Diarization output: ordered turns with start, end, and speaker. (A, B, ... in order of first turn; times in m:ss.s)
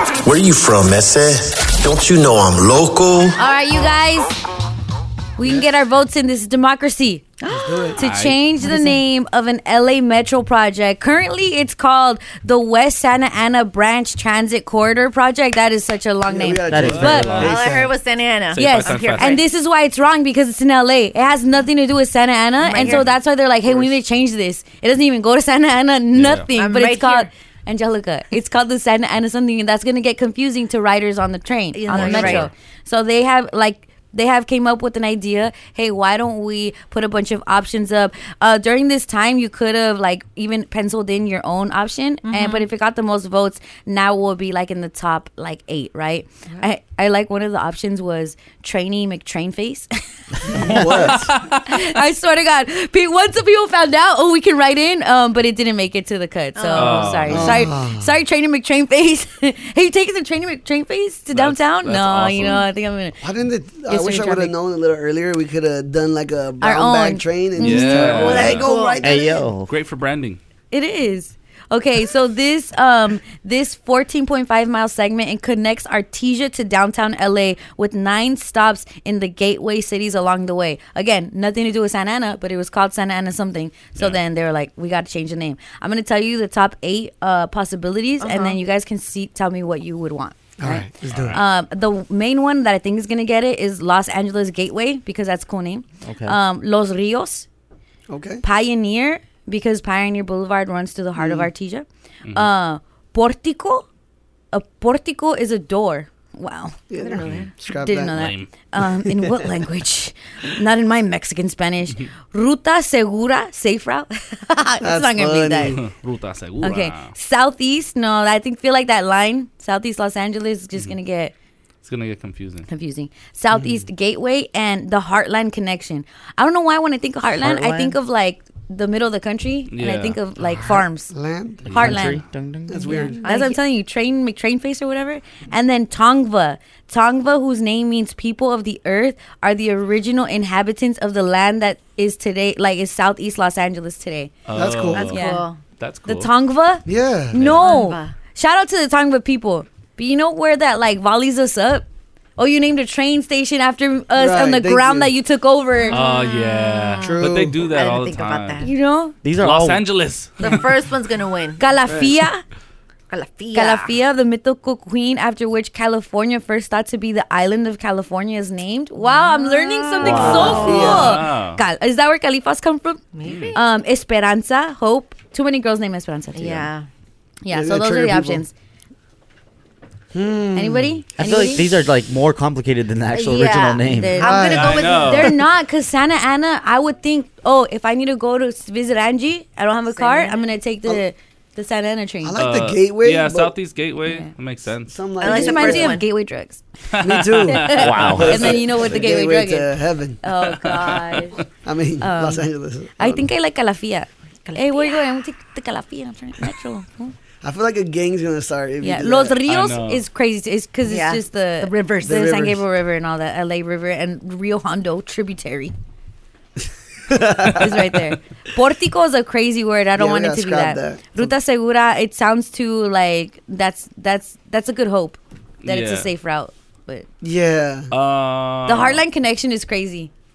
0:00.2-0:03.4 A
0:03.4-0:04.3 B
0:05.4-0:17.4 B
0:05.4-0:05.7 C
0:07.4-0:08.0 C
0:08.0-0:08.8 D
0:16.3-0:17.9 C
0:16.7-0:17.5 E
0:16.7-0:17.6 D
0:17.3-0:19.4 F
0:18.5-0:19.4 D
0:18.6-0:49.9 B
0:22.6-0:23.2 F
0:23.7-0:24.0 C
0:26.1-0:26.5 D
0:26.5-0:27.3 F
0:31.7-0:32.5 F
0:31.9-0:32.5 D
0:42.3-0:42.6 F
0:50.5-0:51.3 C
0:50.6-0:51.8 D
0:51.7-1:03.2 B
0:56.6-0:57.6 F
0:56.7-0:57.7 D
0:57.3-0:58.1 C
1:01.3-1:02.7 D
1:03.2-1:09.3 C
1:03.9-1:04.5 B
1:06.6-1:08.5 B
1:07.6-1:09.0 D
1:08.0-1:09.2 F
1:09.0-1:09.7 E
1:09.6-1:10.4 D
1:10.7-1:37.5 B
1:28.2-1:28.6 F
1:30.6-1:31.4 C
1:31.1-1:31.4 D
1:36.0-1:36.4 E
1:38.1-1:38.4 C
1:38.4-1:43.9 B
1:41.2-1:41.5 C
1:44.5-1:46.8 B
1:46.9-1:48.2 C
1:47.0-1:47.5 F
1:47.2-1:47.5 D
1:47.8-1:55.8 B
1:48.1-1:48.5 D
1:48.8-1:49.4 C
1:54.8-1:55.8 C
1:55.7-1:57.1 D
1:56.6-2:01.3 B
2:01.8-2:02.7 D
2:02.7-2:11.1 B
2:03.5-2:03.9 C
2:07.4-2:08.0 E
2:09.7-2:10.2 D
2:10.4-2:12.1 C
2:11.6-2:13.1 E
2:11.7-2:12.2 B
2:12.7-2:13.2 C
2:12.9-2:13.6 F
2:12.9-2:24.3 B
2:24.5-2:25.3 D
2:24.6-2:25.1 C
2:24.9-2:25.6 F
2:25.1-2:25.5 B
2:25.8-2:26.3 D
2:26.1-2:31.9 B
2:26.9-2:27.6 C
2:27.5-2:28.1 F
2:32.4-2:36.0 B
2:34.2-2:35.1 C
2:35.9-2:38.7 F
2:35.9-2:38.6 D
2:37.0-2:37.6 C
2:38.6-2:39.2 B
2:39.2-2:39.8 E
2:39.4-2:40.7 D
2:40.4-2:41.6 F
2:41.6-2:42.4 B
2:43.1-2:43.9 F
2:43.5-2:53.0 B
2:49.0-2:51.2 F
2:50.0-2:50.8 E
2:50.0-2:51.2 C
2:50.5-2:51.6 D
2:53.1-2:53.6 F
2:53.2-2:53.6 D
2:53.5-2:56.7 B
2:56.3-2:56.9 F
2:57.4-2:58.5 B
2:57.5-2:58.4 C
3:00.1-3:01.0 C
3:00.5-3:01.7 B
3:01.2-3:04.2 E
3:03.1-3:05.4 F
3:03.8-3:12.4 B
3:04.2-3:04.8 C
3:04.4-3:05.4 D
3:09.9-3:10.5 F
3:12.2-3:13.5 C
3:12.4-3:14.9 D
3:14.9-3:16.0 C
3:15.2-3:16.1 F
3:15.2-3:16.6 B
3:17.0-3:18.2 D
3:17.0-3:20.2 C
3:17.5-3:19.7 B
3:17.7-3:18.6 E
3:20.2-3:21.4 B
3:20.6-3:21.2 D
3:20.9-3:21.3 F
3:21.6-3:23.3 C
3:22.0-3:27.1 B
3:24.4-3:25.0 F
3:27.4-3:29.4 C
3:28.8-3:35.7 B
3:29.5-3:30.0 D
3:30.8-3:32.3 F
3:32.0-3:32.6 C
3:37.1-3:38.0 C
3:37.6-3:47.1 B
3:40.0-3:41.3 C
3:45.6-3:46.1 D
3:47.2-3:47.9 C
3:47.9-3:49.0 D
3:48.7-3:50.1 B